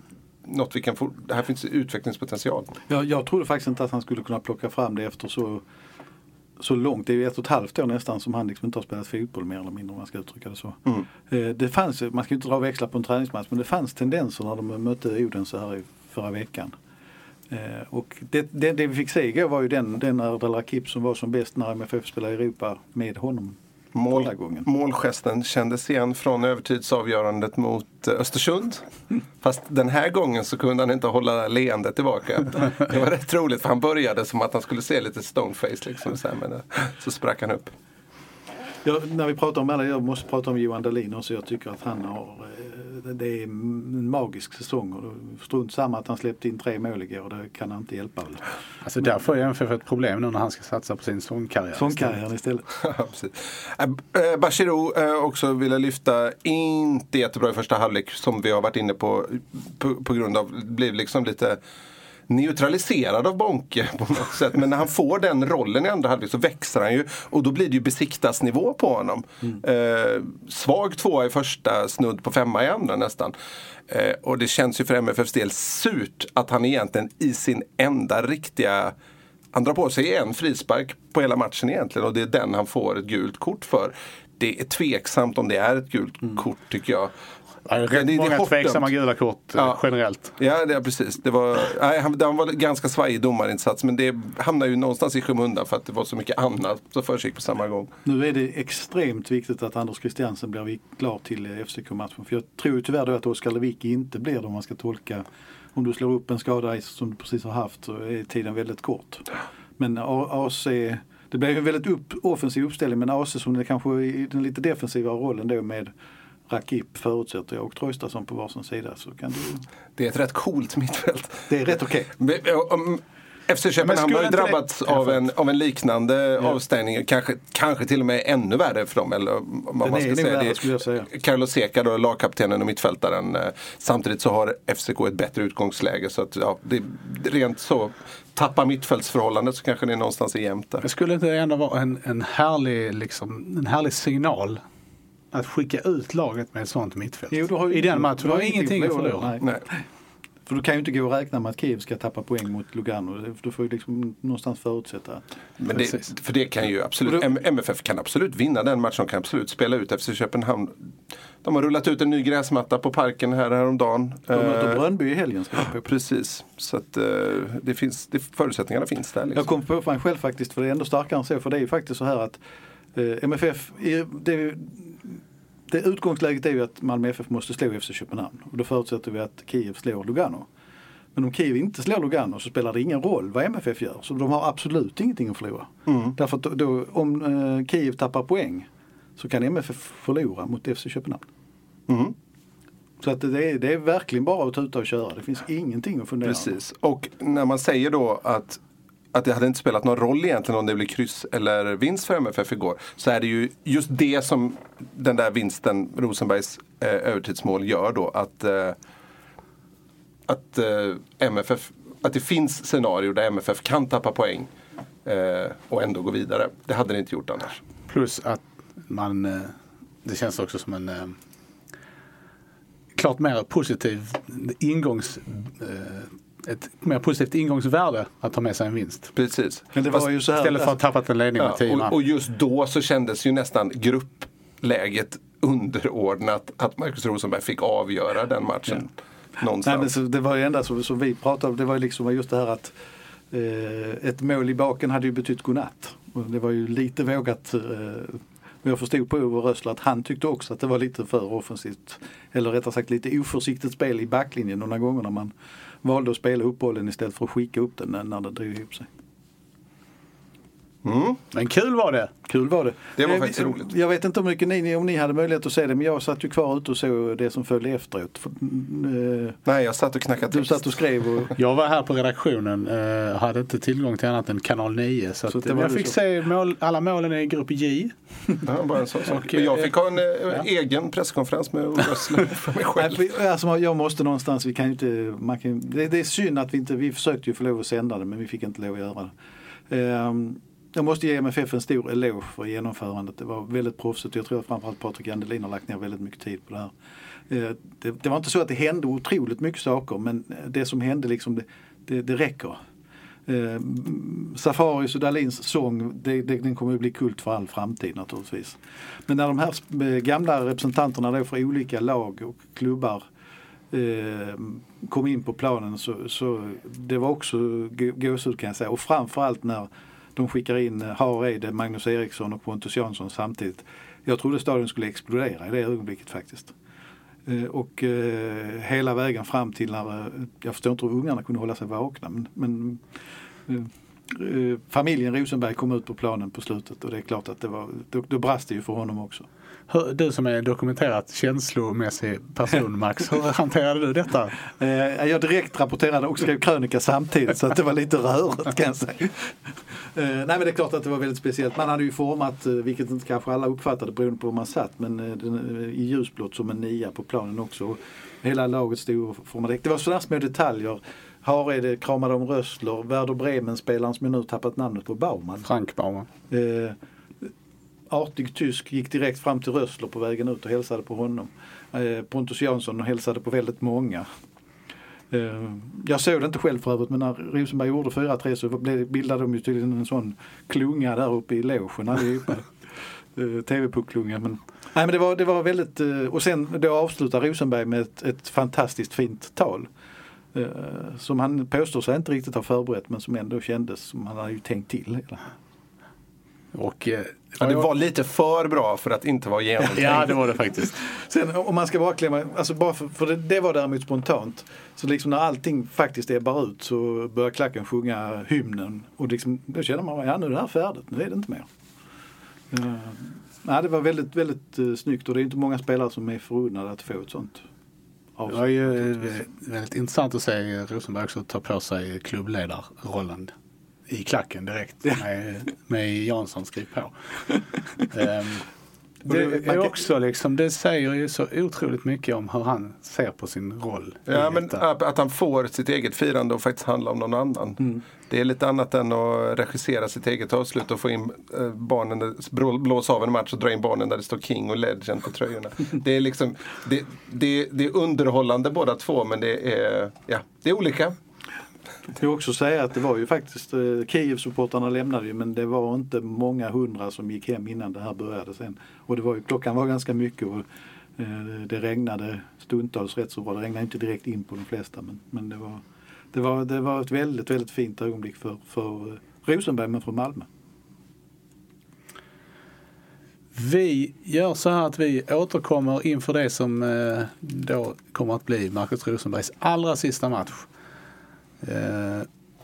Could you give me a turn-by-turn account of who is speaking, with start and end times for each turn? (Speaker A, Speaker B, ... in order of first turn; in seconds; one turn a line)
Speaker A: 0.4-2.7
Speaker B: 2.9-5.6
Speaker B: 6.6-16.8
Speaker B: 17.5-23.6
Speaker A: 23.9-28.9
Speaker B: 24.1-24.7
Speaker A: 29.4-37.7
Speaker B: 38.8-48.4
Speaker C: 48.8-52.2
Speaker B: 51.8-52.6
Speaker A: 52.8-61.6
Speaker A: 62.3-73.3
Speaker A: 73.9-79.0
Speaker A: 79.5-87.1
Speaker C: 87.7-90.3
Speaker A: 87.9-88.9
Speaker A: 89.5-89.8
Speaker A: 90.4-97.9
Speaker B: 98.0-105.2
Speaker B: 105.8-109.2
Speaker B: 109.8-115.9
Speaker B: 116.5-119.7
Speaker A: 120.0-140.8
Speaker B: 121.5-122.1
Speaker C: 123.8-125.3
Speaker B: 129.8-131.1
Speaker C: 140.8-144.6
Speaker C: 145.3-149.3
Speaker B: 147.3-149.8
Speaker B: 150.5-155.2
Speaker A: 155.6-160.9
Speaker C: 155.8-156.1
Speaker A: 161.4-164.8
Speaker B: 164.3-165.9
Speaker A: 165.8-169.5
Speaker B: 169.3-172.4
Speaker B: 172.9-175.2
Speaker B: 175.7-180.5
Speaker B: 181.2-191.2
Speaker A: 185.9-186.2
Speaker A: 191.9-192.2
Speaker B: 193.0-196.5
Speaker A: 196.2-198.6
Speaker A: 199.1-208.8
Speaker A: 210.3-214.5
Speaker A: 215.1-217.6
Speaker C: 217.9-221.2
Speaker C: 222.9-229.1
Speaker A: 229.2-230.0
Speaker B: 229.7-230.8
Speaker C: 229.9-231.9
Speaker A: 231.4-238.9
Speaker A: 239.4-239.9
Speaker B: 239.6-242.7
Speaker B: 243.3-255.3
Speaker B: 255.8-258.9
Speaker A: 260.8-261.2
Speaker C: 261.3-262.1
Speaker B: 262.3-269.4
Speaker A: 263.0-263.7
Speaker A: 269.5-270.8
Speaker B: 270.3-271.4
Speaker C: 271.4-277.9
Speaker B: 275.3-276.0
Speaker A: 278.4-283.0
Speaker C: 279.1-279.7
Speaker B: 282.8-289.1
Speaker B: 289.7-296.7
Speaker B: 297.3-302.6
Speaker B: 303.3-313.1
Speaker B: 313.7-326.5
Speaker B: 327.3-332.8
Speaker B: 333.5-339.3
Speaker C: 339.7-344.3
Speaker B: 344.6-349.3
Speaker B: 349.9-365.5
Speaker C: 365.4-366.1
Speaker B: 366.3-367.3
Speaker B: 367.9-374.1
Speaker B: 375.1-382.5
Speaker B: 383.1-389.7
Speaker B: 390.3-395.2
Speaker C: 396.5-397.7
Speaker A: 397.4-400.1
Speaker B: 399.6-411.5
Speaker C: 399.7-400.7
Speaker B: 412.5-417.4
Speaker B: 418.2-419.2
Speaker C: 418.3-423.3
Speaker C: 423.9-426.9
Speaker C: 427.9-428.4
Speaker C: 429.1-434.6
Speaker A: 434.1-450.9
Speaker B: 452.0-460.4
Speaker B: 461.0-465.6
Speaker B: 466.1-470.3
Speaker C: 473.4-480.5
Speaker C: 481.4-482.1